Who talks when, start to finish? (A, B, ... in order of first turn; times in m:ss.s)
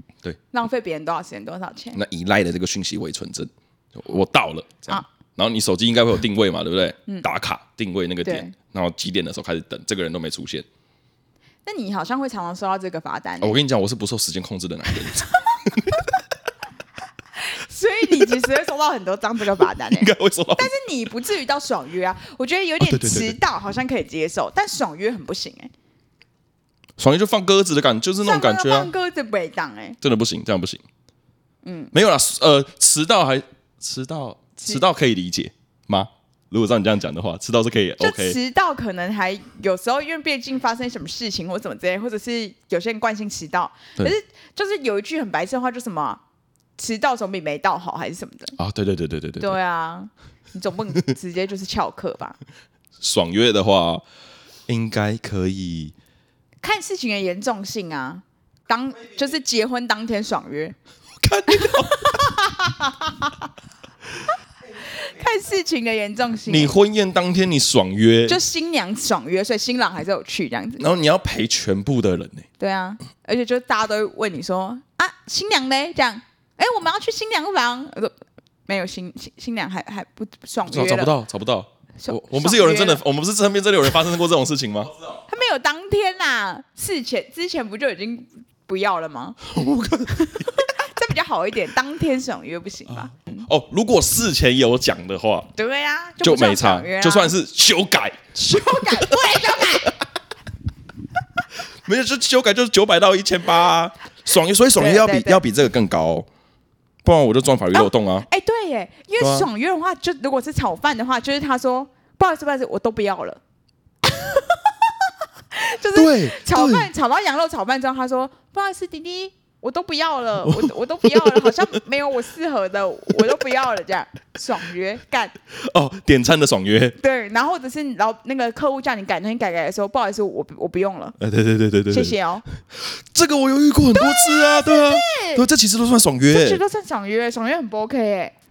0:00.5-0:02.0 A
0:01.9-0:10.7 B
0:08.2-0:08.5 A
0:11.6-0:13.6 A
0:13.4-0:16.1 B
0:17.4-0:25.7 A
0:19.8-0:20.7 B
0:22.8-0:23.4 B
0:27.0-0:28.9 B
0:28.2-0:30.0 A
0:30.0-0:30.8 B
0:31.6-0:31.9 A
0:31.9-0:38.4 B
0:38.0-0:46.2 A
0:46.8-0:48.6 A
0:48.6-0:49.6 B
0:49.4-0:52.4 A
0:53.0-0:54.0 B
0:54.7-0:55.9 B
0:56.6-1:00.8 A
1:01.2-1:02.2 B
1:01.5-1:03.5 A
1:04.8-1:06.7 A
1:06.5-1:08.4 B
1:08.3-1:10.8 A
1:10.8-1:12.5 B
1:12.6-1:18.1 A
1:18.7-1:21.1 A
1:20.7-1:25.0 B
1:22.0-1:23.0 A
1:25.3-1:29.4 A
1:29.4-1:30.6 B
1:30.1-1:33.5 A
1:32.9-1:35.5 B
1:35.6-1:37.3 A
1:36.2-1:39.9 B
1:38.4-1:40.0 A
1:41.8-1:46.3 B
1:44.8-1:45.4 A
1:47.0-1:48.3 B
1:47.7-1:53.4 A
1:49.2-1:49.5 B
1:54.0-2:05.4 A
1:55.9-1:56.9 B
2:00.4-2:01.6 B
2:05.5-2:07.0 B
2:07.0-2:11.2 A
2:11.2-2:12.2 B
2:11.9-2:12.4 A
2:12.7-2:16.6 B
2:13.9-2:15.4 A
2:16.3-2:18.3 A